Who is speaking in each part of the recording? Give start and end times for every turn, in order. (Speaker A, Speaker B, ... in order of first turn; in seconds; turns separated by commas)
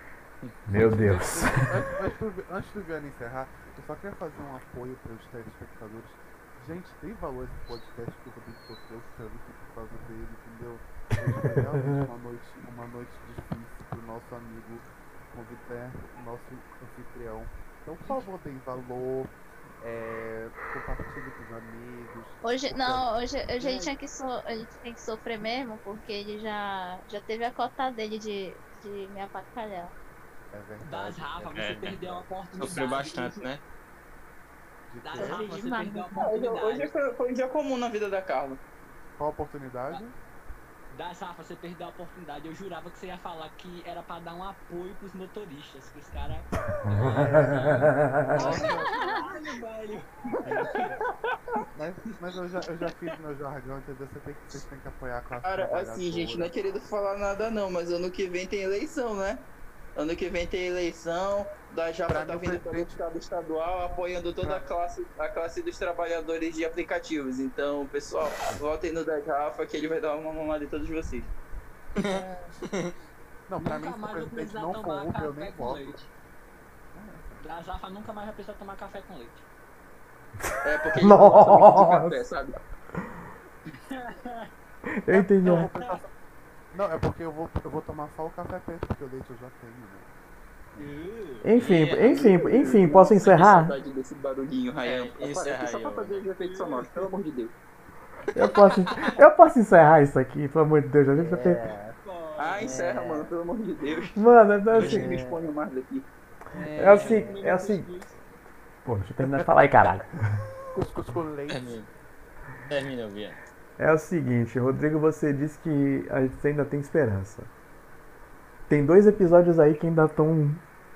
Speaker A: 0.4-0.8, Speaker B: 0.7-1.6, Speaker C: 0.7-23.1, Speaker D: 22.4-29.9, Speaker E: 23.6-23.9, Speaker C: 30.5-33.1, Speaker E: 30.8-33.4, Speaker A: 32.6-33.6, Speaker C: 34.9-35.6, Speaker E: 35.0-36.9, Speaker D: 35.2-36.3, Speaker F: 36.2-38.6, Speaker C: 39.2-40.1, Speaker E: 40.9-46.5, Speaker A: 46.9-47.5, Speaker C: 46.9-49.3, Speaker E: 47.5-47.8, Speaker E: 48.3-50.9, Speaker D: 48.7-49.2, Speaker C: 50.3-51.0, Speaker C: 51.7-56.5, Speaker F: 55.4-59.4, Speaker F: 60.0-71.3, Speaker C: 62.1-62.9, Speaker C: 64.4-64.7, Speaker A: 72.0-72.9, Speaker C: 72.1-72.5, Speaker C: 73.5-76.0, Speaker E: 73.6-76.1, Speaker C: 76.9-77.4, Speaker E: 77.4-79.4, Speaker F: 80.6-82.5, Speaker B: 81.0-82.2, Speaker E: 83.9-84.5, Speaker B: 85.0-85.7, Speaker C: 85.1-86.1, Speaker C: 86.7-90.1, Speaker E: 90.8-91.5, Speaker B: 91.4-93.7, Speaker A: 91.5-92.3, Speaker F: 92.1-97.5, Speaker A: 94.8-96.2, Speaker E: 96.3-97.1, Speaker B: 98.3-101.6, Speaker E: 98.4-99.2, Speaker A: 101.2-102.0, Speaker E: 102.0-102.9, Speaker F: 102.4-104.2, Speaker A: 102.5-103.3, Speaker B: 104.2-105.2, Speaker A: 104.7-105.4, Speaker F: 104.7-106.1, Speaker A: 106.5-107.4, Speaker B: 106.8-107.9, Speaker E: 106.8-108.2, Speaker B: 108.8-110.1, Speaker C: 110.7-111.8, Speaker A: 111.5-111.9, Speaker A: 112.7-113.4, Speaker B: 113.8-117.5, Speaker B: 118.7-120.6